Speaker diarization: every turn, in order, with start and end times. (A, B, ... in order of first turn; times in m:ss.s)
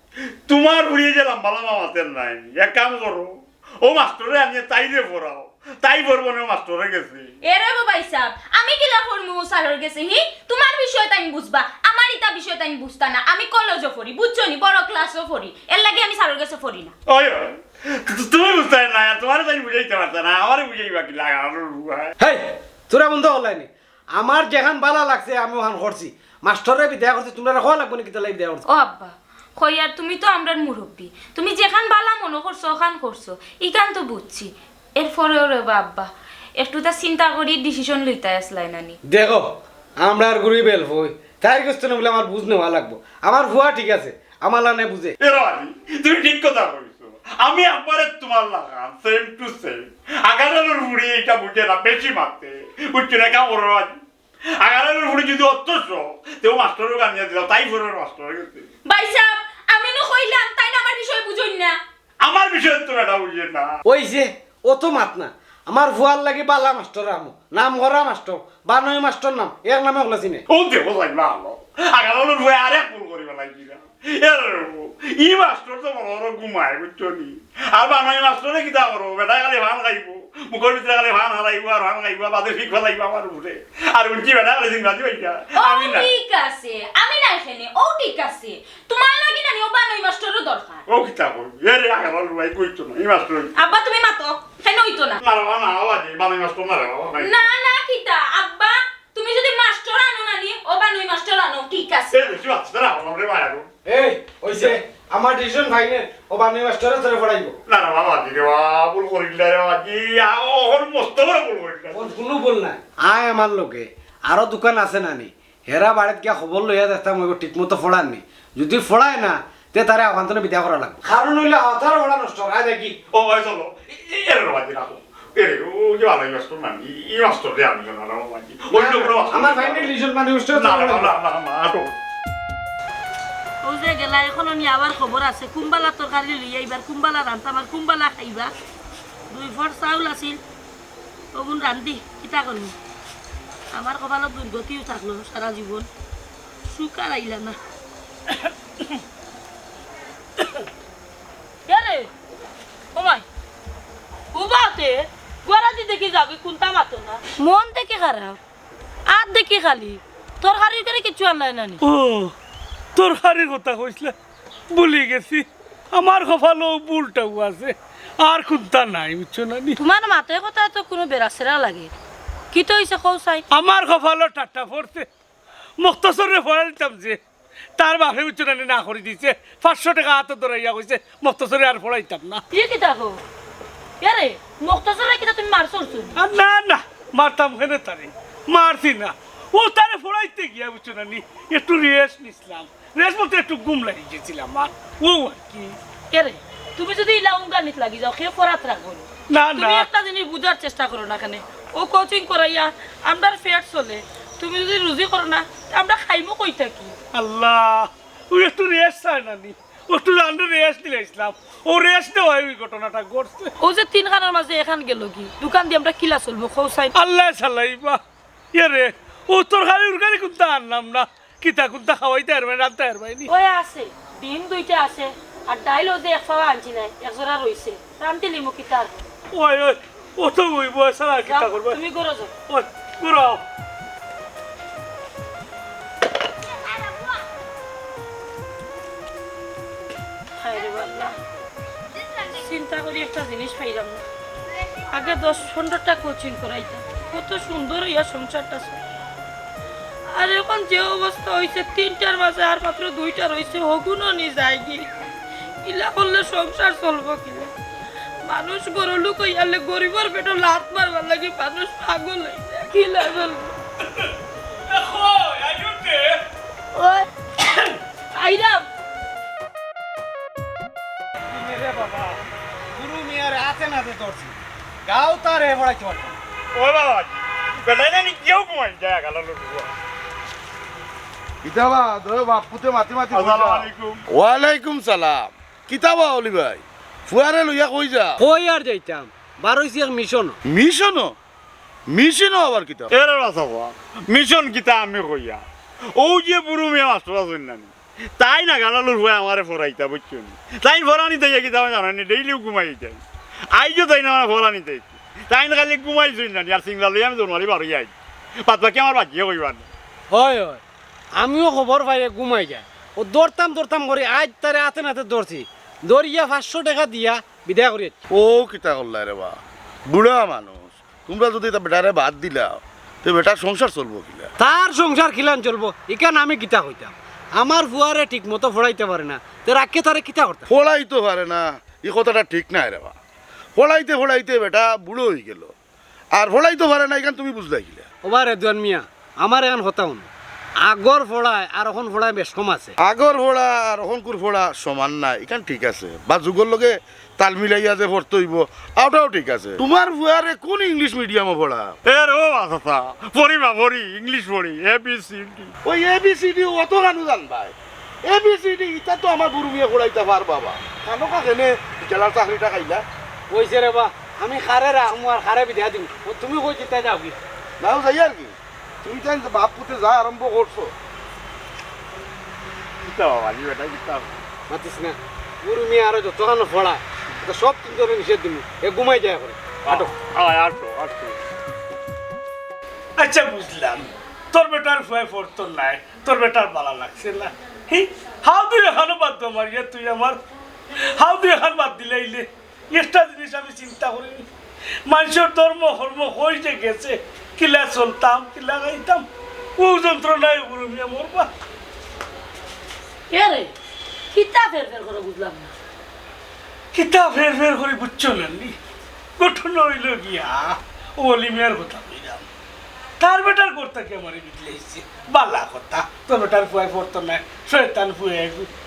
0:00.5-0:07.3 A
0:07.4-0:16.9 B
0:17.1-0:22.1 A
0:22.2-0:28.6 C
0:28.6-0:39.0 B
0:39.1-0:45.2 C
0:45.2-0:54.0 A
0:54.6-0:58.7 A
0:58.8-1:01.8 B
1:02.2-1:03.8 A
1:03.8-1:10.4 C
1:10.5-1:26.1 A
1:25.5-1:30.8 B
1:30.9-1:33.5 A
1:33.5-1:35.2 B
1:35.2-1:37.4 A
1:37.2-1:42.3 B
1:42.1-1:43.7 A
1:43.8-1:47.5 C
1:47.7-1:52.0 A
1:51.9-2:03.0 C
2:03.1-2:09.9 A
2:08.7-2:11.1 C
2:10.5-2:12.0 A
2:13.6-2:18.5 D
2:19.3-2:20.4 D
2:21.3-2:22.7 D
2:23.7-2:25.9 D
2:26.7-2:27.6 D
2:31.7-2:32.1 D
2:32.9-2:33.2 D
2:34.3-2:38.4 D
2:39.0-2:41.8 D
2:41.8-2:42.3 E
2:43.0-2:44.1 E
2:44.7-2:49.8 E
2:49.8-2:51.9 D
2:52.5-2:53.4 D
2:53.5-2:55.1 E
2:55.8-2:57.2 E
2:57.8-3:02.4 E
3:02.5-3:03.2 D
3:04.0-3:06.2 D
3:06.2-3:15.8 E
3:16.1-3:27.0 D
3:19.3-3:19.9 E
3:27.1-3:33.5 E
3:33.6-3:36.9 D
3:36.9-3:38.0 E
3:38.5-3:43.3 E
3:43.3-3:48.9 D
3:49.3-3:51.8 E
3:51.2-3:52.3 D
3:52.5-3:53.4 E
4:00.4-4:01.2 D
4:02.2-4:04.0 D
4:04.9-4:08.8 D
4:10.1-4:14.8 D
4:15.6-4:17.5 D
4:18.2-4:23.6 D
4:24.7-4:26.2 E
4:26.7-4:28.6 D
4:31.3-4:32.2 C
4:32.7-4:36.2 C
4:36.5-4:39.7 A
4:41.4-4:48.2 F
4:43.1-4:44.0 A
4:48.2-4:50.4 C
4:50.4-4:51.2 F
4:51.9-4:52.9 F
4:52.9-4:55.4 A
4:56.0-5:03.0 A
5:03.5-5:07.9 A
5:08.4-5:09.7 A
5:10.1-5:10.6 C
5:11.2-5:17.9 C
5:18.1-5:24.3 F
5:24.4-5:30.4 C
5:30.5-5:32.9 F
5:33.6-5:35.5 F
5:36.1-5:37.9 F
5:38.0-5:40.1 C
5:40.6-5:42.7 C
5:42.8-5:51.8 F
5:51.8-5:55.5 A
5:55.6-6:02.8 F
6:03.3-6:07.2 C
6:07.6-6:10.7 F
6:12.8-6:14.2 A
6:14.5-6:19.9 C
6:19.6-6:21.2 A
6:23.0-6:30.2 E
6:30.8-6:34.2 E
6:34.8-6:39.0 E
6:39.6-6:41.3 E
6:43.1-6:43.5 D
6:44.1-6:45.5 D
6:46.7-6:48.5 E
6:49.2-6:52.2 E
6:53.0-6:58.5 E